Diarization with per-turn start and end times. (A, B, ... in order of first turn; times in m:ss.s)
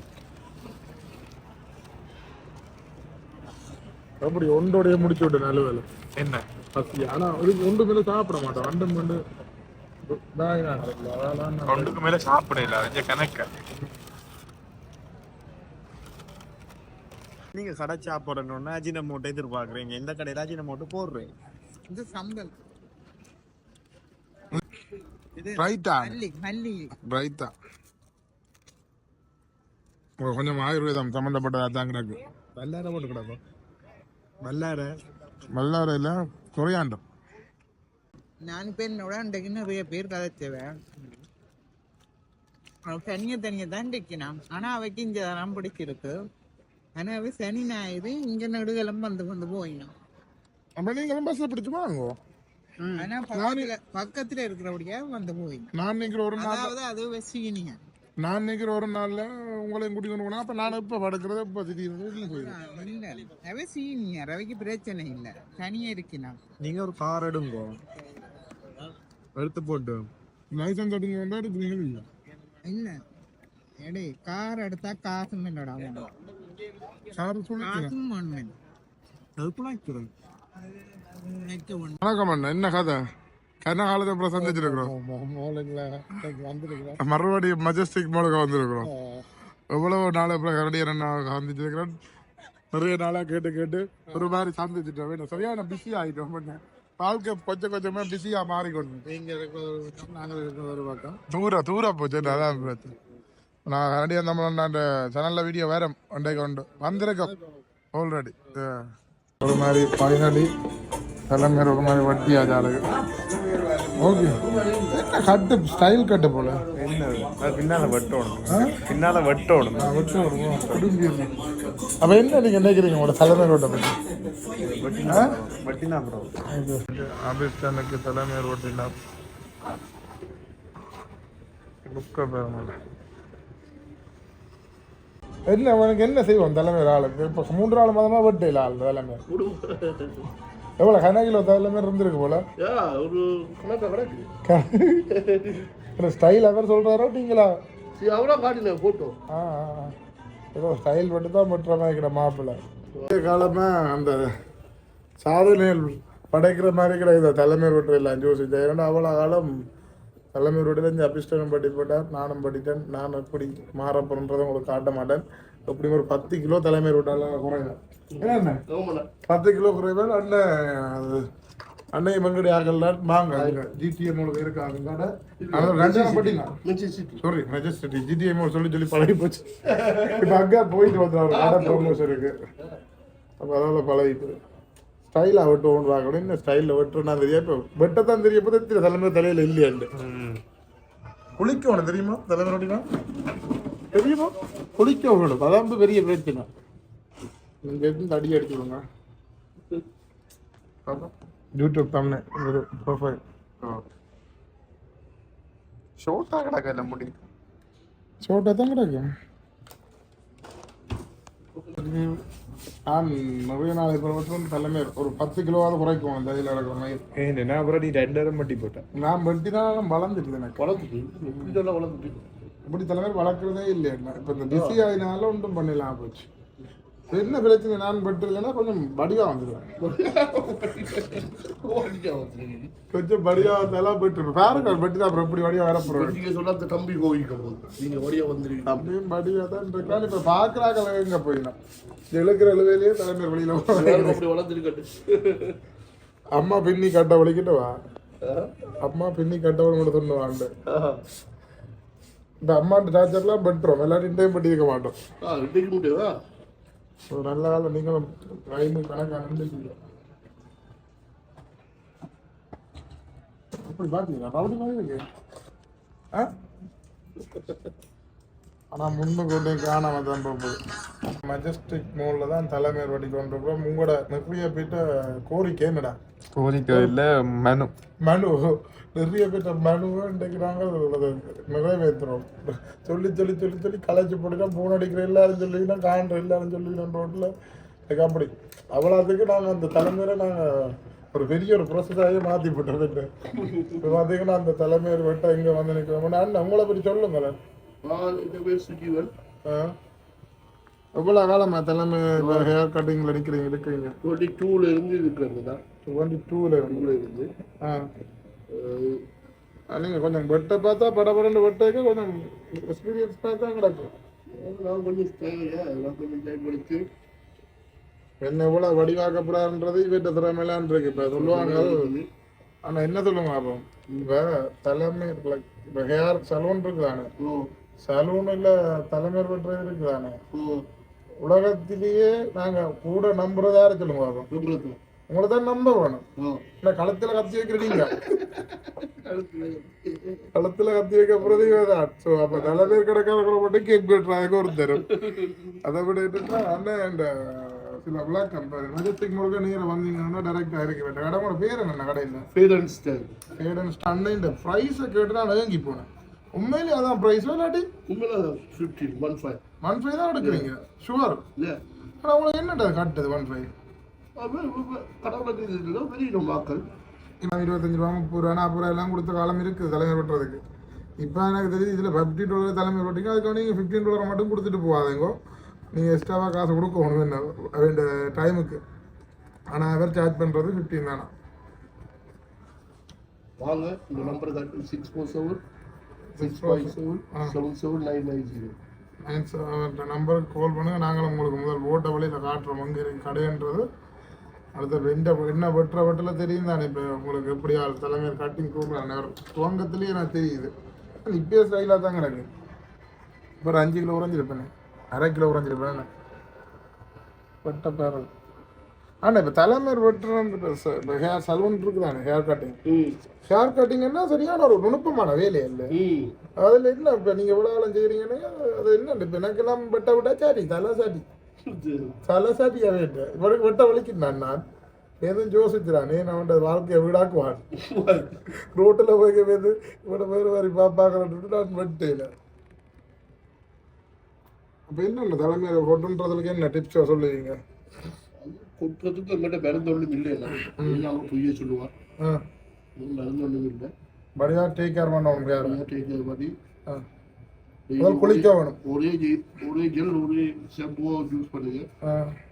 0:04.2-0:05.8 A
0:06.2-0:06.4 B
0:06.8-0:09.2 A
0:10.1-0:12.0 A
0:11.7-0:13.5 B
0:17.5-0:21.3 B
0:21.9-0:22.6 C
0:25.6-0:26.2 A
0:26.0-0:27.0 C
0:27.0-0:27.5 A
0:30.2-0:32.2 A
0:32.6-0:33.4 B
0:34.4-0:35.0 B
0:35.5-0:37.0 A
0:38.4-0:40.8 C
0:42.9-0:46.1 C
0:47.0-0:49.9 C
0:50.8-0:52.2 A
0:52.8-0:55.7 C
0:53.3-0:53.7 A
0:55.7-0:56.7 A
0:56.4-0:57.8 C
0:58.2-1:02.6 A
1:02.2-1:06.4 C
1:06.6-1:07.8 B
1:09.4-1:10.1 B
1:10.5-1:12.1 A
1:12.6-1:13.0 C
1:13.8-1:16.1 C
1:17.1-1:17.9 A
1:17.6-1:18.5 C
1:19.4-1:20.1 B
1:20.8-1:22.0 C
1:22.0-1:23.0 A
1:23.6-1:24.9 A
1:24.4-1:27.0 B
1:27.0-1:28.9 A
1:28.8-1:29.2 B
1:29.7-1:32.0 A
1:32.7-1:39.1 A
1:39.1-1:41.1 B
1:41.2-1:43.0 A
1:43.7-1:47.4 A
1:47.9-1:48.9 A
1:49.4-1:50.5 A
1:51.3-1:52.8 A
1:53.1-1:54.4 B
1:54.0-1:56.6 A
1:54.5-1:54.9 D
1:56.7-1:59.9 B
1:58.5-1:58.8 A
1:59.8-2:01.3 A
2:02.0-2:03.9 A
2:04.6-2:06.3 B
2:05.1-2:05.4 A
2:06.5-2:08.9 A
2:11.8-2:12.7 A
2:15.5-2:19.2 A
2:19.3-2:20.3 D
2:20.8-2:22.4 A
2:22.6-2:24.3 D
2:24.4-2:25.1 A
2:25.2-2:25.6 D
2:25.9-2:27.5 A
2:28.0-2:29.2 D
2:29.3-2:30.0 A
2:30.5-2:34.3 A
2:35.2-2:39.5 A
2:40.3-2:48.6 A
2:48.1-2:49.1 D
2:49.3-2:51.2 A
2:51.9-2:56.6 A
2:53.3-2:53.6 D
2:55.4-2:57.2 D
2:57.2-2:59.5 A
2:59.7-3:00.4 D
3:00.0-3:02.4 A
3:01.3-3:02.8 D
3:03.4-3:04.4 A
3:05.1-3:09.9 A
3:09.9-3:10.4 B
3:11.4-3:12.8 A
3:13.9-3:16.5 A
3:17.6-3:18.8 A
3:20.9-3:23.2 A
3:26.0-3:27.2 B
3:28.2-3:29.1 A
3:31.8-3:32.2 A
3:32.9-3:37.0 A
3:37.2-3:38.8 B
3:39.0-3:40.6 A
3:40.6-3:42.2 D
3:42.6-3:46.3 A
3:44.5-3:44.8 D
3:47.1-3:49.7 A
3:49.8-3:52.7 D
3:52.9-3:56.2 A
3:54.4-3:54.8 D
3:55.8-3:58.9 D
3:58.7-4:01.6 A
4:02.1-4:04.2 A
4:03.7-4:05.6 D
4:06.4-4:07.8 A
4:08.2-4:08.5 D
4:08.8-4:10.5 A
4:10.7-4:11.0 D
4:12.4-4:15.0 A
4:15.2-4:16.1 D
4:17.1-4:19.8 A
4:23.6-4:25.0 A
4:28.7-4:36.0 A
4:36.3-4:37.7 B
4:38.0-4:47.3 A
4:47.9-4:53.1 A
4:53.4-4:53.8 D
4:53.8-4:57.4 A
4:57.8-4:59.1 D
4:59.4-4:59.8 A
5:01.0-5:03.9 A
5:02.2-5:02.5 D
5:04.0-5:05.6 D
5:05.8-5:06.9 A
5:06.6-5:07.3 D
5:07.6-5:07.9 A
5:08.5-5:09.0 D
5:09.7-5:13.9 A
5:14.3-5:16.8 D
5:18.2-5:21.8 A
5:21.1-5:22.1 D
5:22.6-5:27.1 A
5:27.2-5:27.5 D
5:27.8-5:30.2 A
5:30.3-5:30.7 D
5:31.2-5:34.3 A
5:34.3-5:34.8 D
5:35.1-5:36.0 A
5:36.2-5:36.4 D
5:36.6-5:38.0 A
5:37.7-5:40.3 D
5:40.3-5:45.0 A
5:41.2-5:41.6 D
5:42.3-5:42.8 D
5:44.7-5:45.6 D
5:45.6-5:52.2 A
5:52.3-5:53.2 D
5:53.4-5:57.7 A
5:57.9-5:59.4 D
5:59.6-6:01.2 A
6:00.2-6:00.5 D
6:02.0-6:03.5 A
6:04.2-6:06.6 D
6:07.2-6:10.4 A
6:11.0-6:15.1 A
6:15.7-6:18.6 A
6:19.5-6:21.1 A
6:23.4-6:25.4 D
6:26.2-6:27.4 A
6:26.2-6:28.6 D
6:29.0-6:33.7 A
6:34.6-6:40.5 A
6:41.0-6:42.3 A
6:43.4-6:45.9 A
6:47.4-6:48.1 A
6:49.0-6:52.6 A
6:52.7-6:53.0 D
6:53.3-6:55.8 A
6:55.7-6:56.2 D
6:56.4-7:01.0 A
7:01.5-7:02.0 D
7:02.0-7:04.4 A
7:05.0-7:07.5 A
7:07.6-7:08.2 D
7:08.5-7:12.1 A
7:14.7-7:17.4 A
7:18.2-7:21.7 D
7:20.4-7:20.9 A
7:22.0-7:22.2 A
7:22.8-7:23.7 D
7:24.2-7:25.6 A
7:25.4-7:26.4 D
7:27.7-7:31.7 D
7:27.8-7:28.6 A
7:31.8-7:32.2 A